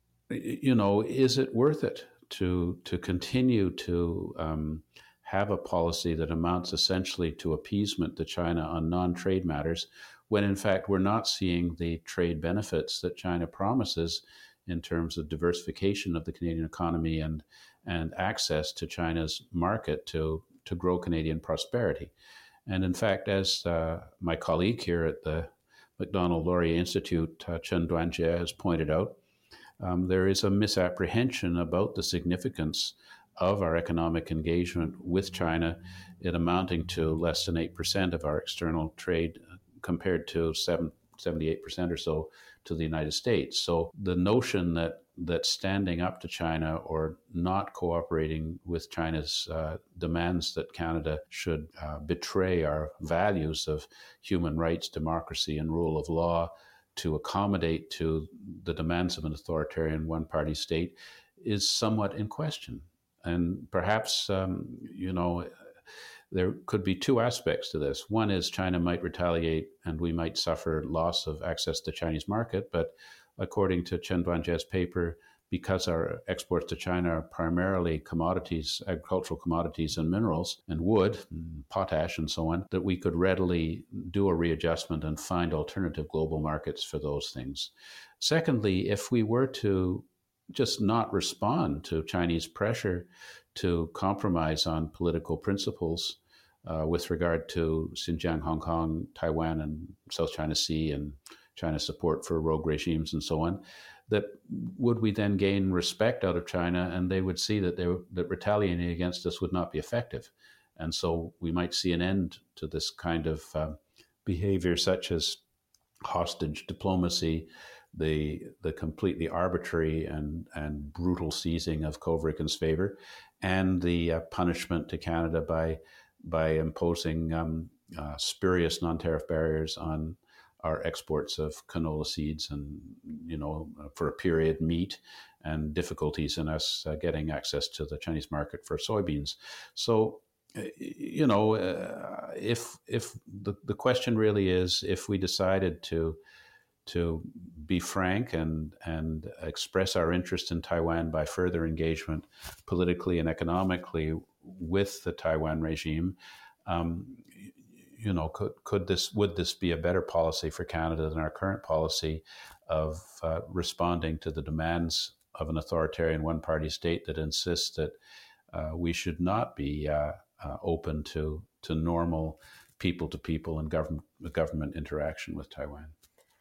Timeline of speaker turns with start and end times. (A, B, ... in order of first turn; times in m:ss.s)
0:00.3-0:22.1 A
0:22.7-0:29.2 A
0:29.8-1:05.5 A
1:06.3-1:55.4 A
1:56.1-2:26.2 A
2:26.8-2:48.0 A
2:48.5-2:55.9 A